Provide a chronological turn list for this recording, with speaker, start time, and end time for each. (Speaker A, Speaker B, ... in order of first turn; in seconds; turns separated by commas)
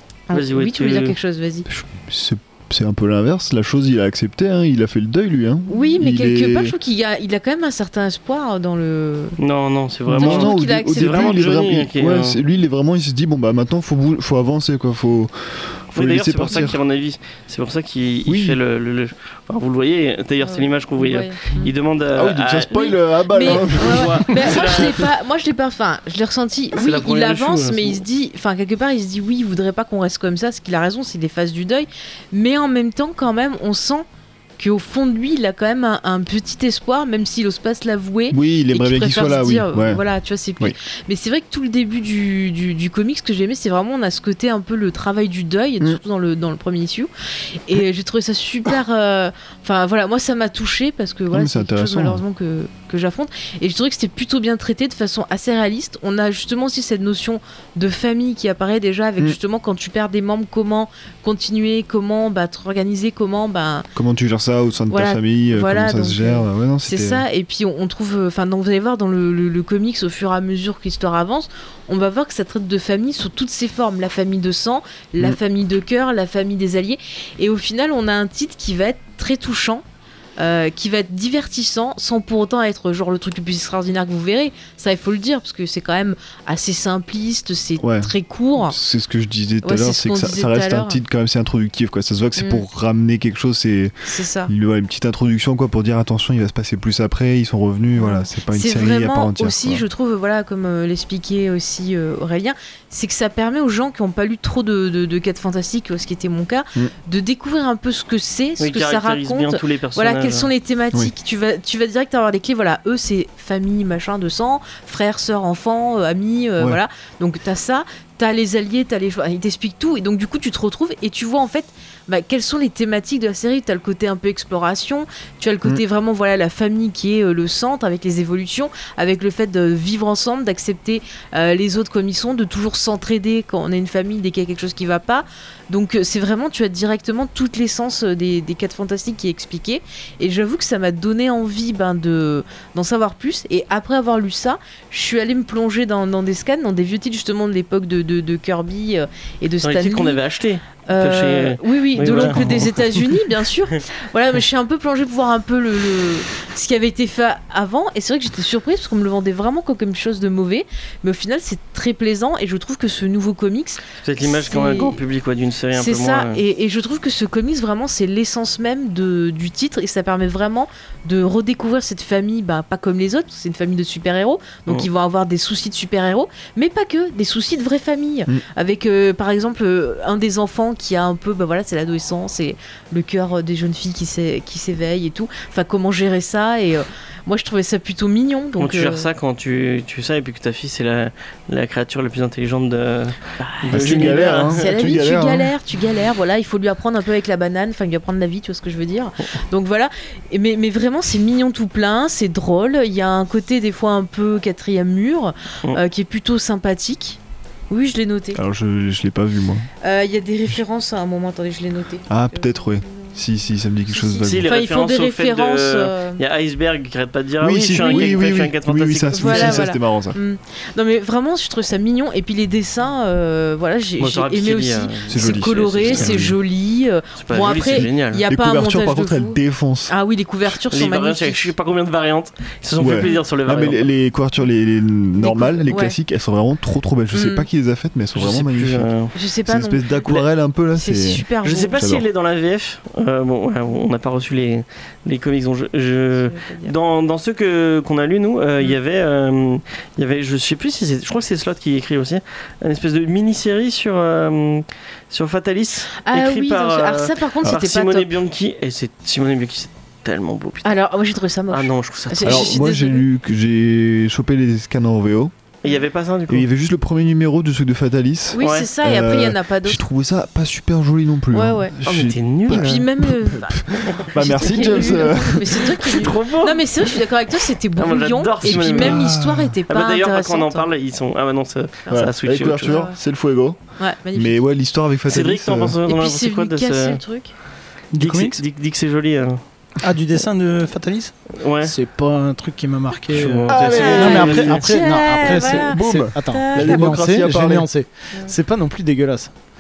Speaker A: 0.3-1.7, Speaker B: 0.3-1.2, Speaker C: 1.7-6.7, Speaker A: 5.7-9.4, Speaker B: 9.4-12.4, Speaker C: 10.1-16.8, Speaker A: 10.1-11.5, Speaker B: 15.9-25.0, Speaker C: 18.3-18.6, Speaker A: 20.4-21.7, Speaker C: 22.1-24.9, Speaker A: 22.8-34.0, Speaker B: 26.8-28.0, Speaker A: 34.6-47.1, Speaker C: 38.3-40.0, Speaker A: 47.6-63.9, Speaker C: 51.3-52.2, Speaker C: 63.9-67.2, Speaker A: 64.9-79.8, Speaker A: 80.4-88.8, Speaker C: 87.8-99.8, Speaker A: 89.6-91.0, Speaker A: 92.4-92.6, Speaker A: 94.0-94.5, Speaker A: 98.0-150.2, Speaker B: 108.6-110.5, Speaker B: 149.6-152.8, Speaker A: 150.9-165.0, Speaker C: 152.1-152.6, Speaker B: 164.0-166.4, Speaker A: 165.7-189.1, Speaker B: 188.6-194.7, Speaker A: 193.4-207.2, Speaker C: 193.7-195.5, Speaker A: 207.7-208.4, Speaker C: 208.3-209.7, Speaker A: 209.8-213.1, Speaker C: 212.1-214.5, Speaker A: 213.9-216.2, Speaker B: 214.2-219.7, Speaker C: 217.4-220.2, Speaker A: 217.8-218.1, Speaker A: 219.1-231.5, Speaker B: 224.0-226.3, Speaker C: 225.1-226.4, Speaker B: 227.2-228.2, Speaker C: 227.7-229.9, Speaker B: 230.7-233.8, Speaker C: 232.8-238.9, Speaker A: 235.2-236.0, Speaker A: 237.1-237.5, Speaker B: 238.1-239.1, Speaker A: 239.1-240.1, Speaker C: 239.5-242.1, Speaker A: 240.7-241.8, Speaker B: 241.4-260.7, Speaker A: 246.2-246.7, Speaker A: 256.0-258.1, Speaker A: 260.6-263.0, Speaker B: 261.5-262.5, Speaker C: 262.2-265.3, Speaker B: 265.6-266.4, Speaker C: 266.3-276.1, Speaker A: 268.3-269.8, Speaker B: 268.4-268.7, Speaker A: 271.3-271.7, Speaker B: 271.8-272.8, Speaker A: 272.5-280.7, Speaker B: 273.9-274.9, Speaker B: 275.9-276.9, Speaker B: 277.8-279.1, Speaker C: 278.4-279.5, Speaker B: 279.7-282.8, Speaker C: 281.9-283.6, Speaker A: 282.6-283.0, Speaker A: 283.8-284.4, Speaker C: 284.1-285.8, Speaker B: 285.1-287.0, Speaker A: 285.9-287.3, Speaker D: 287.9-288.4, Speaker B: 287.9-289.4, Speaker D: 289.8-299.3, Speaker B: 291.4-291.7, Speaker B: 293.1-294.7, Speaker C: 293.5-294.4, Speaker A: 293.7-296.9, Speaker C: 295.5-297.7